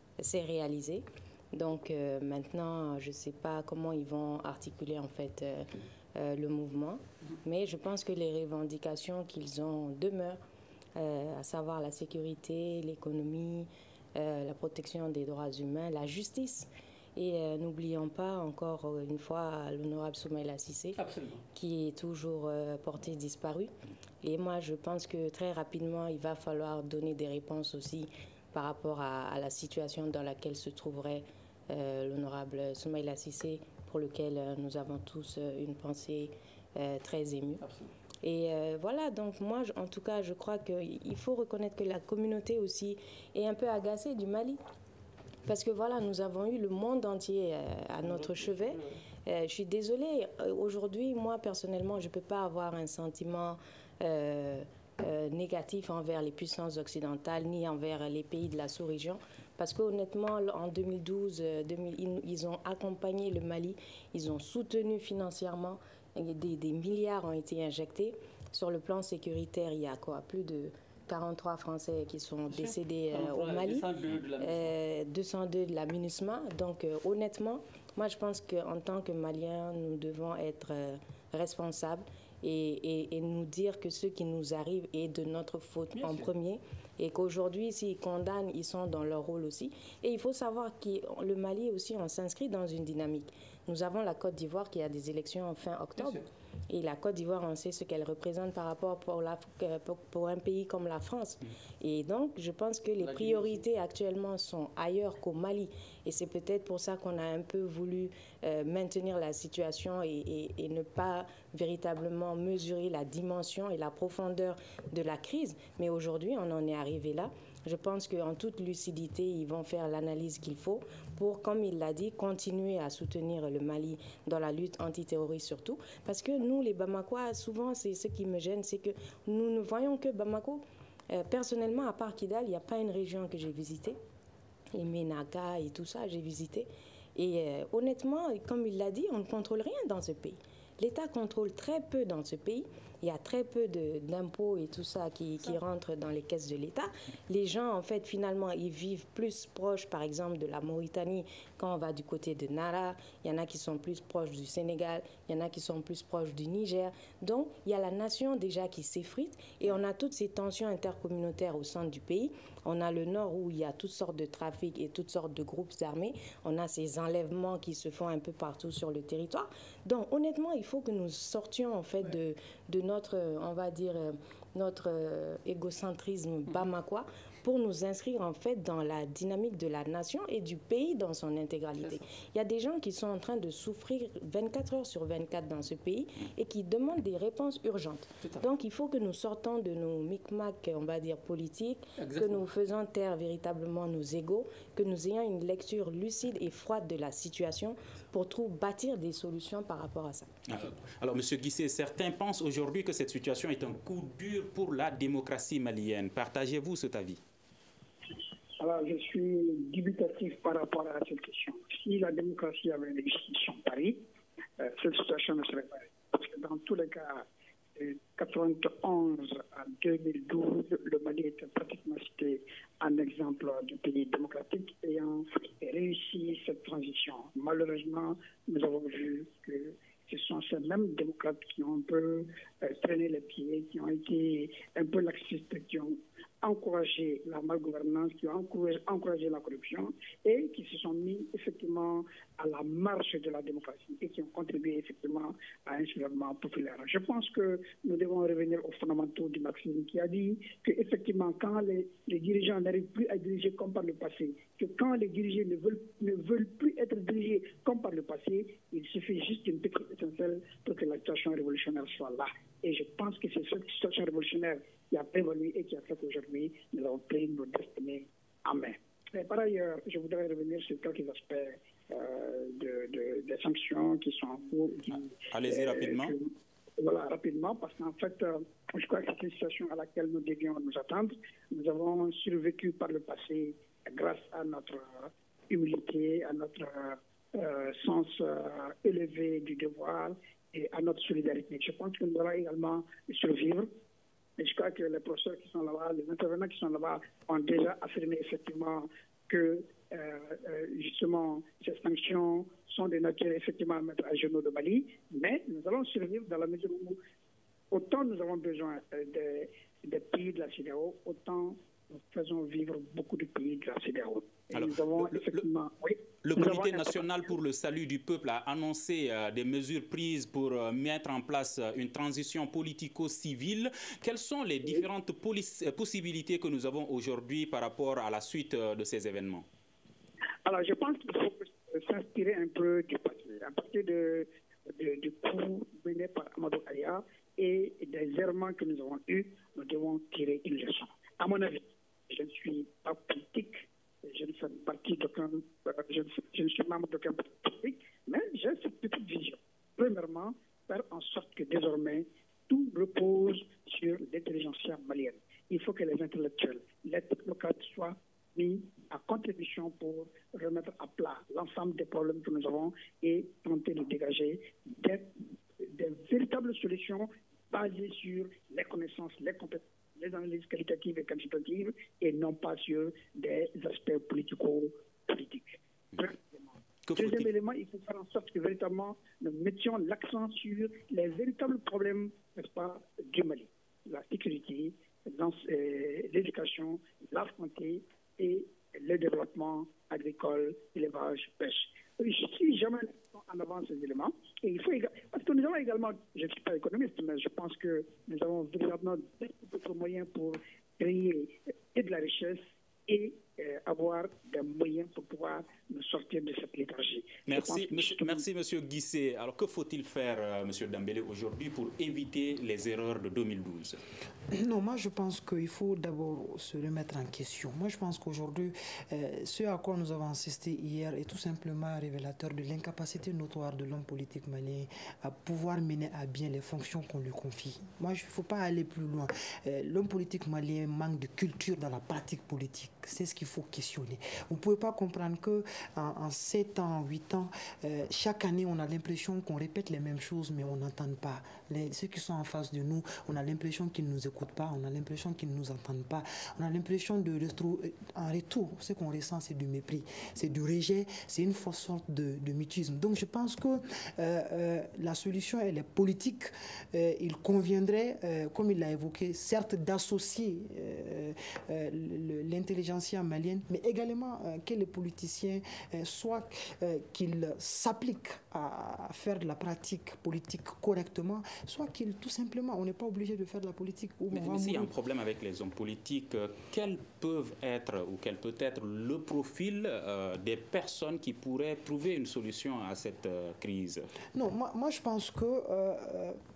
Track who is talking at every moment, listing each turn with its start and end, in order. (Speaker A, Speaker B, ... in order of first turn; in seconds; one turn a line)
Speaker A: 0.2-10.4
Speaker A: 11.0-21.0
Speaker B: 21.0-21.4
Speaker A: 21.5-37.6
Speaker B: 37.6-37.9
Speaker A: 38.2-44.6
Speaker A: 45.5-73.9
Speaker B: 48.0-49.0
Speaker B: 72.5-74.7
Speaker A: 74.4-134.0
Speaker B: 86.0-86.3
Speaker B: 96.0-96.2
Speaker B: 103.0-103.6
Speaker A: 134.7-200.3
Speaker B: 192.0-192.4
Speaker C: 200.5-207.2
Speaker D: 208.6-214.0
Speaker D: 214.6-293.7
Speaker C: 275.3-276.1
Speaker D: 294.4-307.0
Speaker D: 307.7-317.3
Speaker C: 314.5-315.4
Speaker C: 316.2-329.5
Speaker D: 330.4-408.3
Speaker C: 376.9-377.3
Speaker C: 407.3-413.8
Speaker E: 414.3-474.7
Speaker C: 474.1-483.9
Speaker E: 484.1-486.2